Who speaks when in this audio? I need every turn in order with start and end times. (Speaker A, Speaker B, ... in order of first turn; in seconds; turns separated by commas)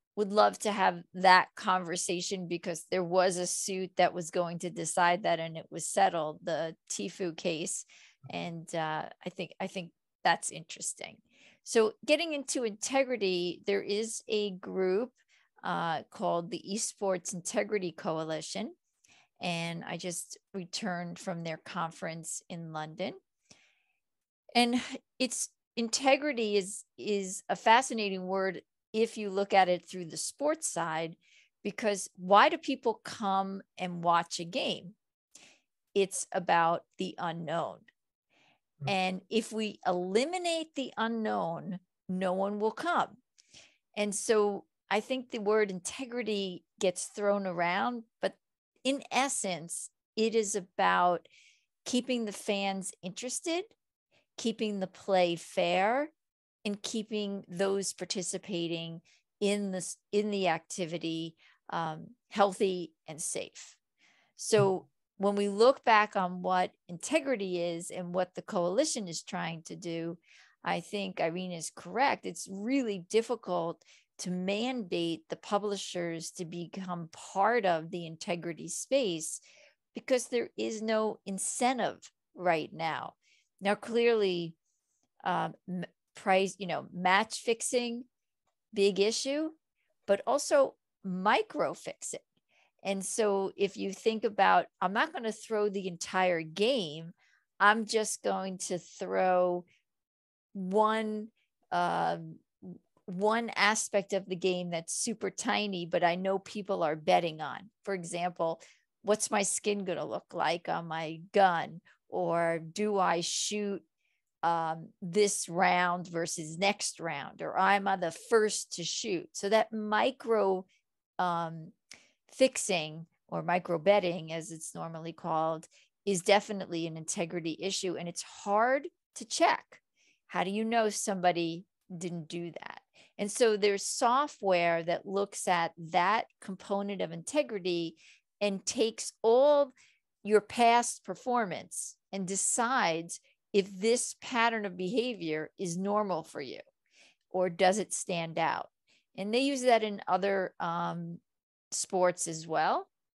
Speaker A: 0.1-18.7, Speaker A: 19.4-23.2, Speaker A: 24.5-35.0, Speaker A: 35.9-37.9, Speaker A: 38.9-43.2, Speaker A: 43.9-51.3, Speaker A: 51.8-53.7, Speaker A: 54.4-56.1, Speaker A: 56.6-63.8, Speaker A: 64.4-79.4, Speaker A: 79.9-84.5, Speaker A: 85.2-88.0, Speaker A: 88.7-89.5, Speaker A: 90.1-92.2, Speaker A: 92.8-99.7, Speaker A: 100.5-113.8, Speaker A: 114.4-120.7, Speaker A: 121.2-121.7, Speaker A: 122.3-139.7, Speaker A: 140.2-146.6, Speaker A: 147.3-152.9